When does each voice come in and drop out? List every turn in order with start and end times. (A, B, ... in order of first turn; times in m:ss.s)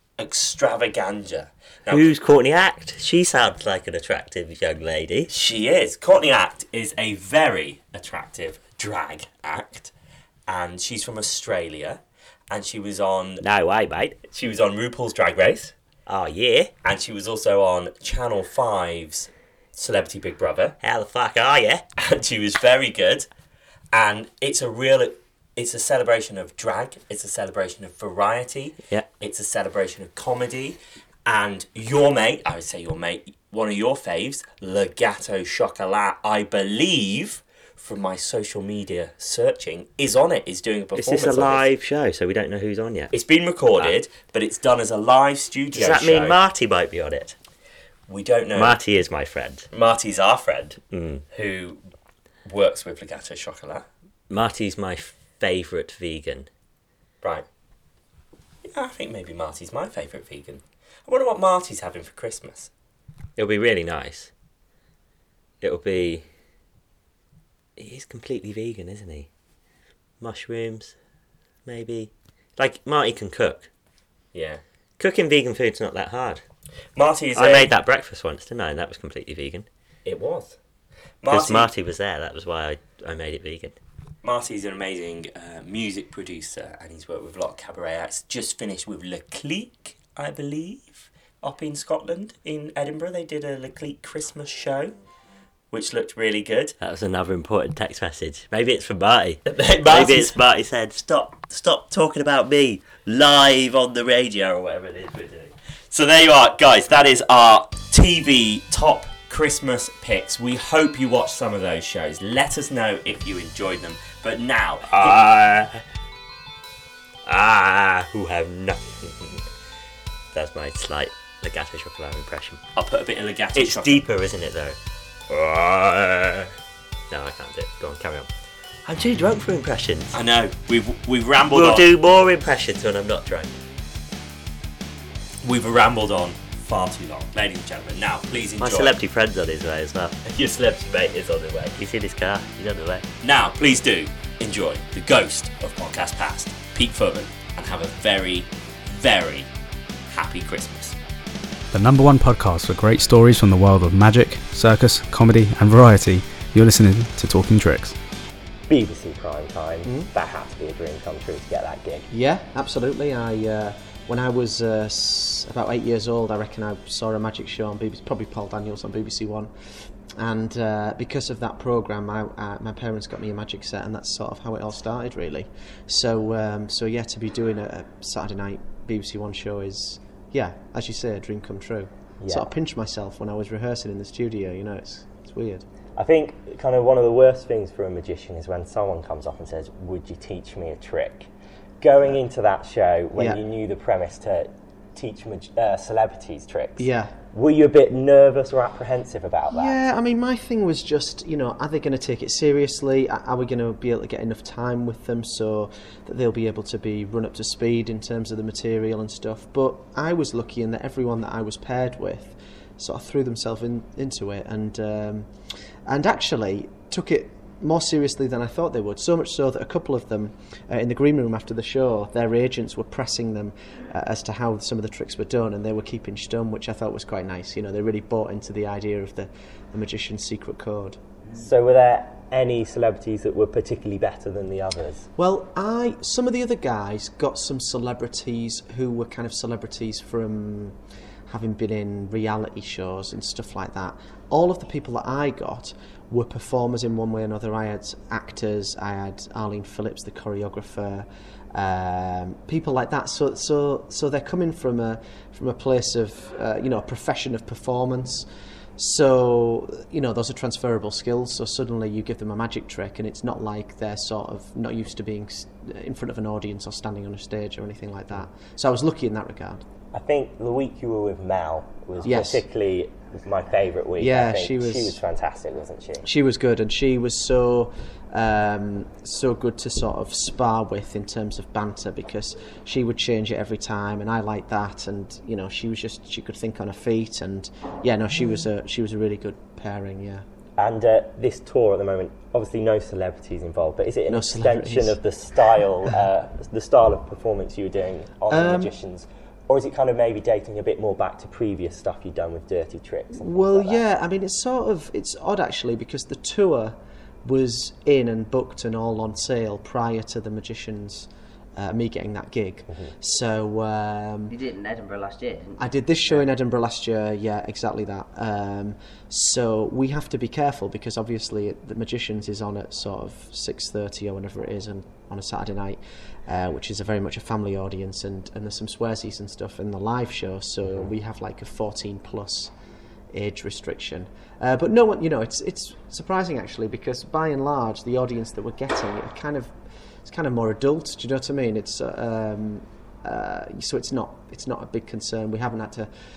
0:00.2-0:02.1 A
0:01.9-0:05.3 B
0:05.3-0:09.9 A
0:10.5-0:13.4 A
0:13.4-0:14.2 B
0:14.3-0:15.7 A
0:16.1-0:16.7 B
0:16.8-0:20.8 A
0:20.8-0:21.9 B
0:22.0-0:23.3 A
0:23.9-0:41.7 A
0:41.0-0:43.1 B
0:43.1-0:46.4 A
0:45.7-0:47.4 B
0:48.1-0:48.8 A
0:48.6-0:49.7 B
0:49.7-0:50.8 A
0:50.9-0:51.2 B
0:51.3-0:51.8 A
0:52.5-0:53.8 A
0:54.3-0:56.5 B
0:58.7-1:02.7 A
1:03.4-1:04.3 B
1:05.6-1:06.2 B
1:07.8-1:09.3 B
1:10.2-1:11.0 B
1:11.7-1:13.7 B
1:14.3-1:14.6 A
1:15.0-1:16.4 B
1:17.0-1:17.7 A
1:17.4-1:19.7 B
1:20.0-1:20.6 A
1:21.2-1:21.7 A
1:21.3-1:23.8 B
1:24.2-1:35.0 A
1:35.7-1:36.8 A
1:36.8-1:45.5 B
1:39.5-1:40.4 A
1:45.9-1:55.2 A
1:54.9-1:55.8 B
1:57.2-1:59.1 B
2:00.3-2:02.6 B
2:02.8-2:04.0 A
2:03.6-2:04.8 B
2:05.3-2:06.5 B
2:07.1-2:08.3 B
2:08.8-2:10.2 B
2:10.1-2:11.9 A
2:11.5-2:13.5 B
2:15.4-2:19.0 A
2:18.6-2:23.1 B
2:23.2-2:29.5 A
2:30.1-2:31.0 A
2:31.7-2:38.0 C
2:38.7-2:42.1 D
2:39.8-2:40.1 E
2:42.1-2:49.5 E
2:50.2-3:05.6 E
3:02.2-3:02.5 D
3:06.0-3:11.3 D
3:11.8-3:19.8 D
3:16.8-3:17.2 E
3:19.5-3:35.3 E
3:35.9-3:51.0 E
3:51.3-3:55.1 D
3:55.2-4:00.8 E
4:01.3-4:18.3 E
4:18.8-4:29.6 E
4:29.9-4:36.1 D
4:32.0-4:32.4 E
4:34.0-4:35.0 E
4:36.0-4:50.2 E
4:50.6-5:03.8 D
4:54.1-4:55.0 E
4:58.3-4:58.7 E
5:03.1-5:14.3 E
5:12.7-5:12.9 D
5:14.3-5:16.3 F
5:15.6-5:32.5 E
5:33.1-5:39.5 E
5:40.0-5:45.9 E